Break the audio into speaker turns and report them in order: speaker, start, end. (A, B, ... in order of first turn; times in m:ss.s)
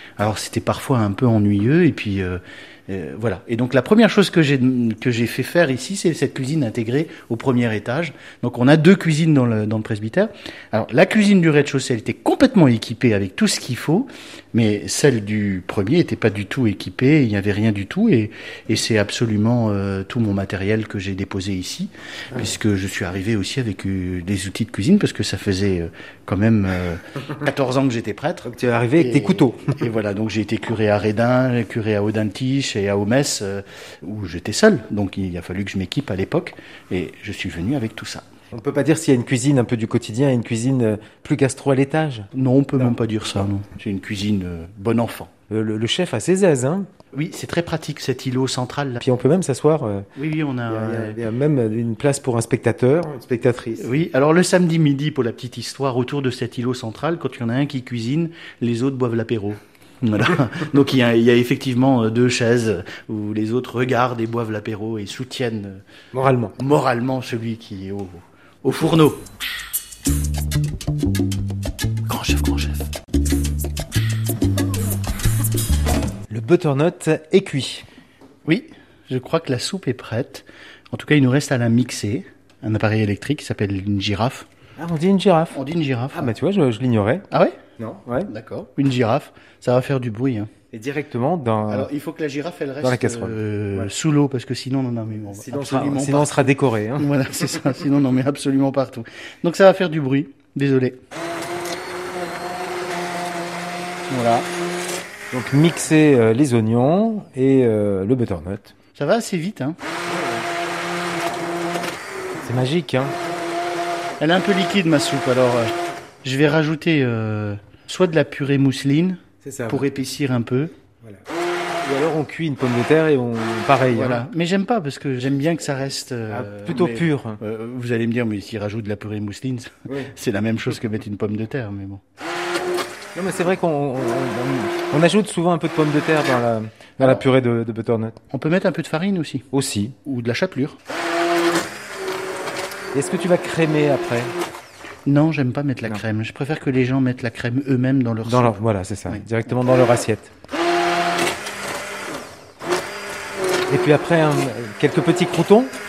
0:00.2-0:38.2 A
0:28.4-0:29.8 B
0:38.5-0:42.3 B
0:42.3-0:45.3 A
0:45.5-0:46.9 B
0:47.1-0:49.0 A
0:49.0-0:50.1 B
0:50.2-0:51.2 A
0:50.7-0:53.9 B
0:53.8-1:05.8 A
1:06.1-1:06.6 B
1:06.6-1:09.2 A
1:12.1-1:12.9 A
1:16.3-1:17.9 B
1:18.4-1:24.5 A
1:24.8-1:25.6 B
1:25.5-1:26.3 A
1:26.1-1:27.3 B
1:27.8-1:28.3 B
1:28.3-1:30.5 A
1:30.7-1:31.9 B
1:31.7-1:41.0 A
1:32.8-1:33.9 B
1:35.3-1:37.1 B
1:44.1-1:44.5 A
1:45.3-1:48.7 B
1:49.0-1:49.8 A
1:50.1-1:50.5 B
1:52.4-1:53.2 B
1:54.2-1:55.7 A
1:56.2-2:00.7 A
1:59.4-1:59.9 B
2:01.8-2:04.2 B
2:03.9-2:12.0 A
2:06.3-2:07.4 B
2:13.2-2:18.2 B
2:17.0-2:17.3 A
2:18.3-2:19.5 A
2:19.5-2:20.0 B
2:20.0-2:20.8 A
2:22.9-2:24.3 B
2:25.1-2:28.6 A
2:28.2-2:30.3 B
2:33.7-2:35.7 B